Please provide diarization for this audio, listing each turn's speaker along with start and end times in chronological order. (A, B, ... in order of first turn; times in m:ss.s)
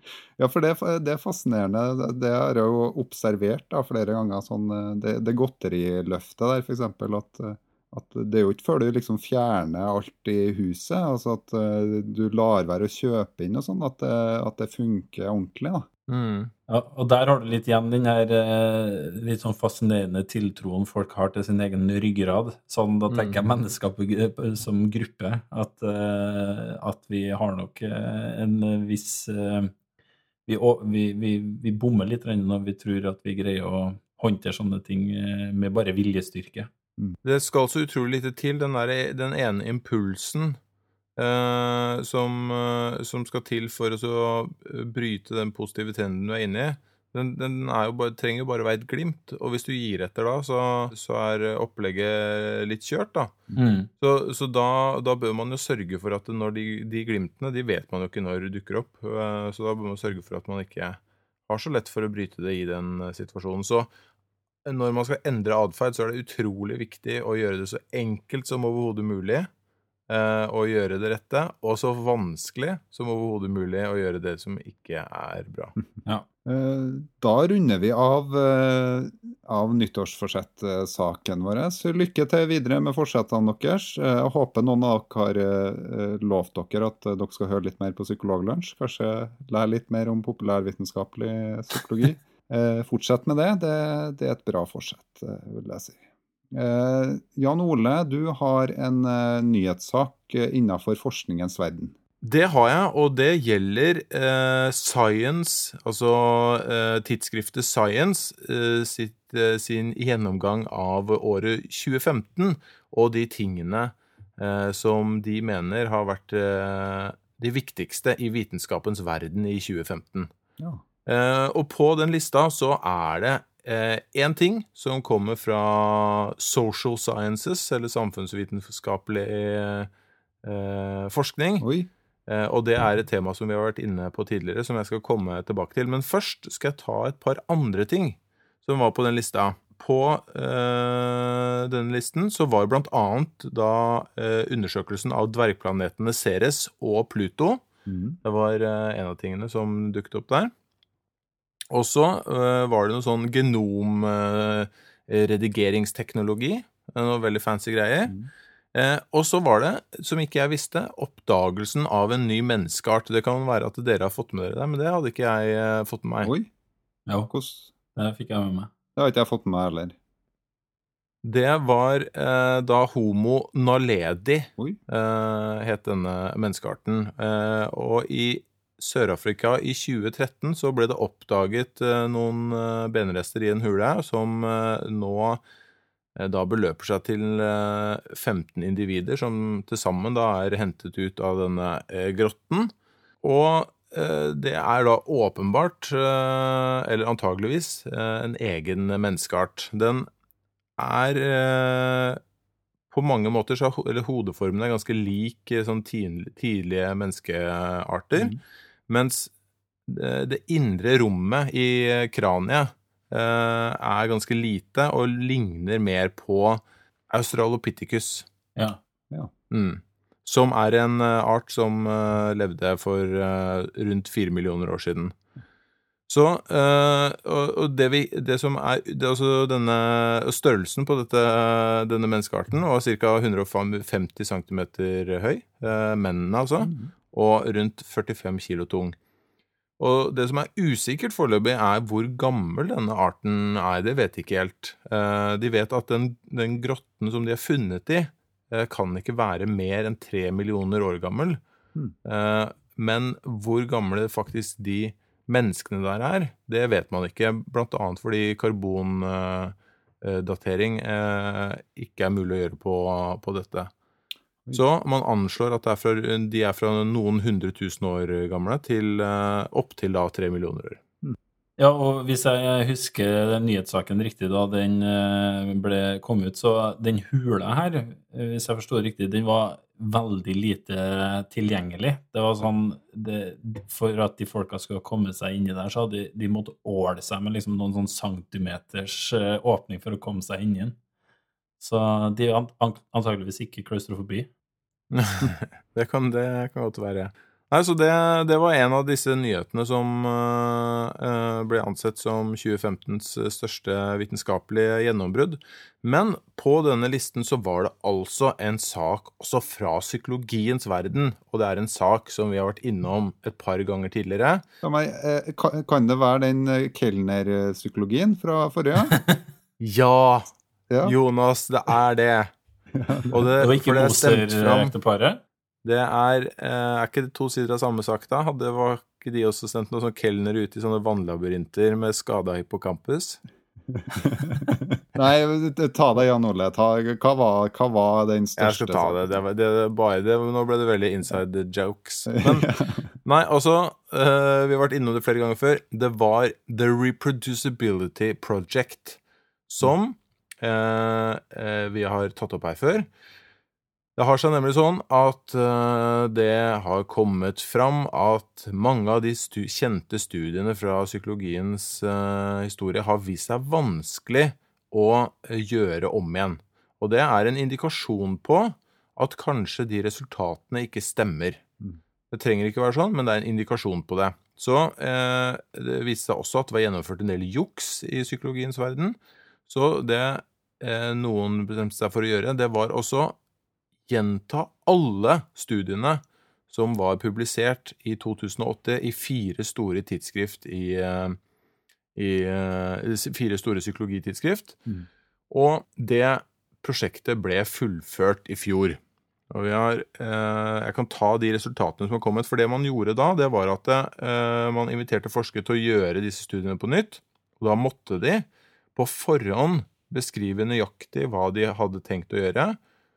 0:00.4-0:15.9 A
0:16.1-0:16.5 B
0:16.7-0:29.7 C
0:23.1-0:23.5 B
0:30.5-0:36.7 C
0:37.2-0:40.6 B
0:41.2-0:53.4 B
0:53.6-0:53.9 C
0:54.0-1:03.9 B
1:04.6-1:09.5 B
1:10.1-1:15.8 B
1:16.5-1:36.0 A
1:36.5-1:42.0 A
1:42.2-2:00.3 B
2:01.1-2:09.9 B
2:10.4-2:11.7 B
2:11.6-2:11.9 A
2:12.3-2:27.6 B
2:27.9-2:28.2 A
2:28.2-2:30.5 B
2:31.7-2:38.2 B
2:38.7-2:46.3 B
2:46.2-2:46.5 A
2:47.3-2:47.7 A
2:48.0-2:48.7 C
2:49.0-2:50.0 A
2:51.2-3:05.4 B
3:06.2-3:20.1 B
3:20.8-3:22.2 B
3:22.9-3:28.4 B
3:28.9-3:29.3 B
3:29.9-3:38.3 B
3:39.5-3:45.2 B
3:46.1-3:59.0 B
3:56.6-3:56.9 A
3:59.8-4:11.4 B
4:12.0-4:23.7 B
4:24.5-4:30.8 B
4:31.6-4:50.8 C
4:51.6-4:54.3 C
4:54.9-5:14.4 B
5:14.6-5:19.0 A
5:19.6-5:20.3 B
5:20.8-5:22.3 B
5:22.7-5:23.1 A
5:23.1-5:24.7 B
5:23.4-5:25.2 C
5:25.6-5:33.2 B
5:33.7-5:39.2 A
5:38.4-5:42.5 B
5:42.1-5:42.9 A
5:43.0-5:52.9 B
5:54.0-6:11.4 B
6:12.1-6:19.0 B
6:19.5-6:23.2 B
6:23.9-6:31.2 B
6:32.0-6:34.6 B
6:35.3-6:38.8 B
6:39.3-6:52.6 B